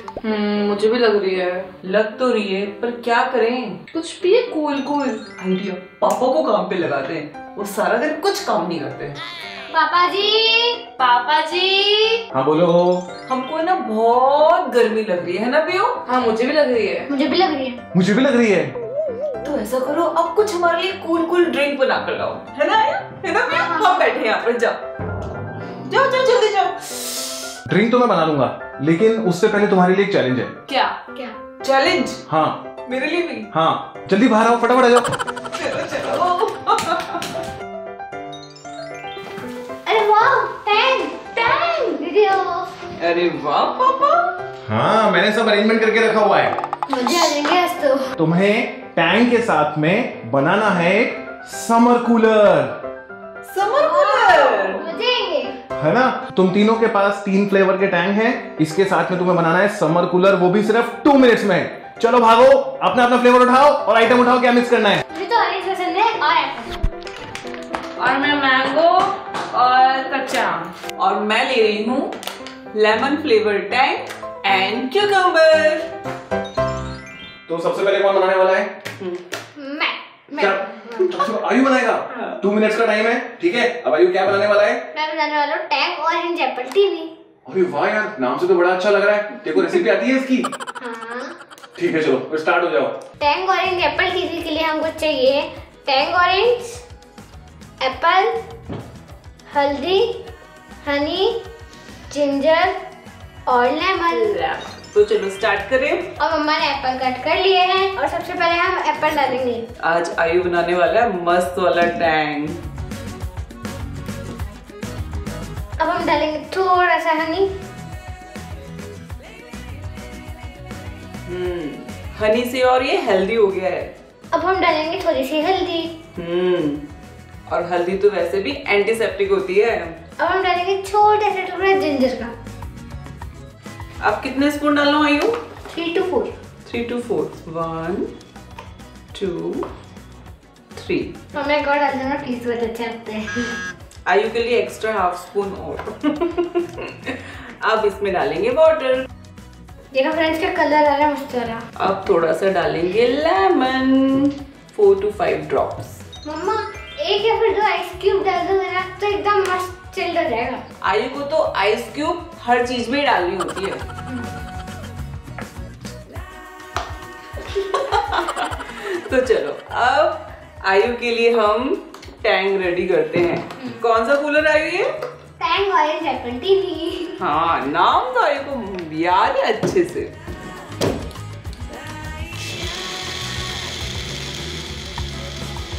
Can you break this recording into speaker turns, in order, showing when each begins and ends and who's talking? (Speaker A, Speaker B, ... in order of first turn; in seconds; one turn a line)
Speaker A: 0.2-1.7
Speaker B: 1.8-3.8
Speaker A: 3.9-5.3
Speaker B: 5.3-9.2
Speaker C: 9.7-10.8
Speaker A: 11.0-12.2
Speaker D: 12.3-13.1
Speaker B: 13.3-16.0
Speaker A: 16.1-17.1
Speaker C: 17.1-17.8
Speaker D: 17.9-18.7
Speaker B: 19.4-24.8
Speaker C: 23.4-24.1
Speaker B: 25.8-27.4
Speaker D: 27.7-30.5
Speaker A: 30.7-30.9
Speaker B: 31.6-32.2
Speaker D: 32.3-32.6
Speaker B: 32.9-33.5
Speaker D: 33.5-35.1
Speaker B: 35.5-37.4
Speaker C: 39.9-42.7
Speaker B: 43.0-44.3
Speaker D: 44.6-46.5
Speaker C: 46.9-48.1
Speaker D: 48.1-52.7
Speaker B: 53.4-54.8
Speaker C: 53.8-55.5
Speaker D: 55.8-65.0
Speaker C: 65.1-66.8
Speaker A: 68.0-70.7
Speaker B: 71.0-72.1
Speaker B: 72.7-75.9
Speaker D: 77.5-78.7
Speaker C: 79.6-81.4
Speaker D: 80.3-84.8
Speaker C: 84.9-87.1
Speaker D: 87.5-90.5
Speaker C: 90.8-91.3
Speaker D: 91.8-92.9
Speaker C: 93.2-96.8
Speaker C: 97.8-98.3
Speaker C: 99.5-100.2
Speaker C: 100.8-101.4
Speaker C: 102.1-102.7
Speaker C: 103.5-104.4
Speaker B: 104.8-106.1
Speaker C: 106.2-109.6
Speaker B: 109.8-112.6
Speaker C: 115.8-117.5
Speaker B: 121.3-123.9
Speaker C: 124.3-125.9
Speaker B: 126.2-126.8
Speaker B: 127.5-129.9
Speaker C: 130.2-132.3
Speaker B: 134.0-135.4
Speaker C: 135.7-136.3
Speaker B: 136.7-138.1
Speaker B: 139.1-139.7
Speaker B: 140.8-141.2
Speaker C: 141.3-143.5
Speaker B: 144.1-149.1
Speaker C: 149.9-151.6
Speaker B: 151.8-156.0
Speaker C: 156.2-160.6
Speaker B: 160.8-163.8
Speaker B: 167.5-174.9
Speaker C: 175.4-177.2
Speaker B: 177.2-180.1